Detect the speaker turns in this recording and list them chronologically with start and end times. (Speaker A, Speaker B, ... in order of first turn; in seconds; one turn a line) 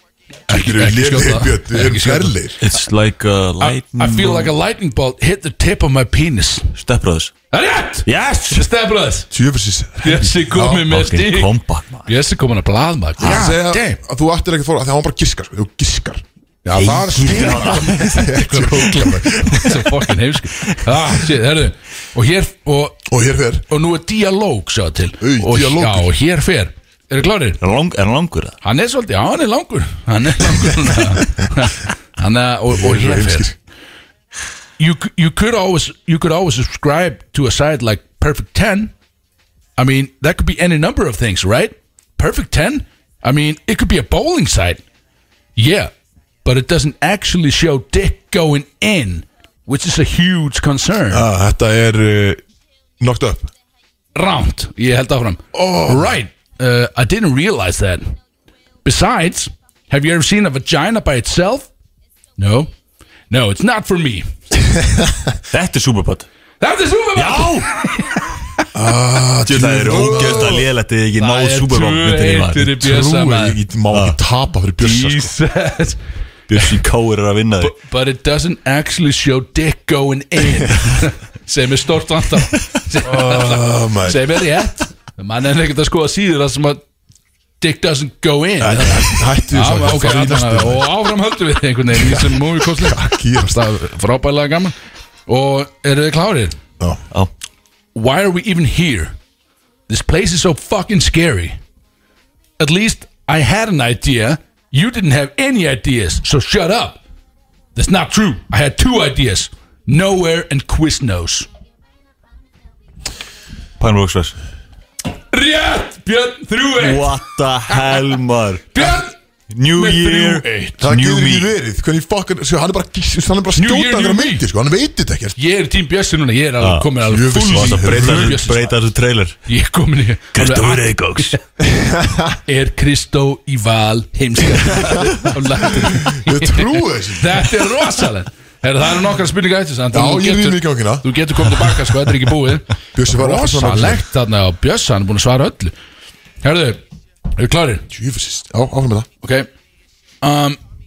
Speaker A: 0.5-2.3
Speaker B: 0.5-2.6
Speaker C: 2.6-4.5
Speaker A: 3.6-6.7
Speaker C: 6.8-7.3
Speaker A: 7.5-9.3
Speaker C: 8.1-8.6
Speaker B: 9.3-10.8
Speaker A: 10.0-11.5
Speaker C: 10.6-12.1
Speaker A: 12.1-14.0
Speaker B: 13.2-16.2
Speaker A: 16.6-23.0
Speaker C: 16.7-18.2
Speaker B: 17.8-19.9
Speaker B: 23.1-23.6
Speaker A: 23.7-27.6
Speaker B: 25.2-26.1
Speaker C: 27.6-28.6
Speaker A: 28.6-33.5
Speaker B: 32.7-33.5
Speaker A: 34.8-38.9
Speaker A: 39.8-44.8
Speaker A: 45.5-45.9
Speaker A: 46.4-51.2
Speaker B: 51.1-52.4
Speaker B: 53.0-53.5
Speaker A: 54.1-58.1
Speaker B: 55.5-56.1
Speaker A: 58.8-61.7
Speaker A: 62.4-62.7
Speaker A: 63.3-64.3
Speaker C: 65.5-66.3
Speaker A: 66.6-68.2
Speaker C: 67.1-67.7
Speaker B: 68.7-70.7
Speaker C: 69.5-72.8
Speaker A: 69.9-70.6
Speaker A: 71.2-73.6
Speaker B: 72.7-75.3
Speaker C: 73.9-74.2
Speaker A: 74.8-76.0
Speaker C: 76.5-77.7
Speaker A: 77.6-86.8
Speaker B: 83.0-84.4
Speaker A: 87.6-94.7
Speaker B: 88.6-90.9
Speaker B: 91.9-93.7
Speaker A: 95.3-96.6
Speaker A: 97.9-99.1
Speaker A: 99.9-101.6
Speaker A: 102.6-107.0
Speaker A: 107.7-111.5
Speaker C: 113.8-114.3
Speaker A: 115.3-118.0
Speaker C: 116.8-119.0
Speaker A: 118.7-119.1
Speaker C: 119.5-121.5
Speaker A: 119.7-120.8
Speaker B: 120.8-125.4
Speaker A: 123.5-124.4
Speaker A: 125.4-128.8
Speaker C: 126.6-129.4
Speaker B: 127.0-128.4
Speaker A: 129.5-131.4
Speaker C: 130.3-131.3
Speaker B: 131.6-132.4
Speaker A: 132.4-145.7
Speaker B: 134.6-137.8
Speaker B: 139.9-141.9
Speaker B: 142.9-144.0
Speaker A: 146.4-146.8
Speaker A: 147.3-147.8
Speaker B: 147.9-149.1
Speaker A: 149.2-149.5
Speaker A: 150.2-150.6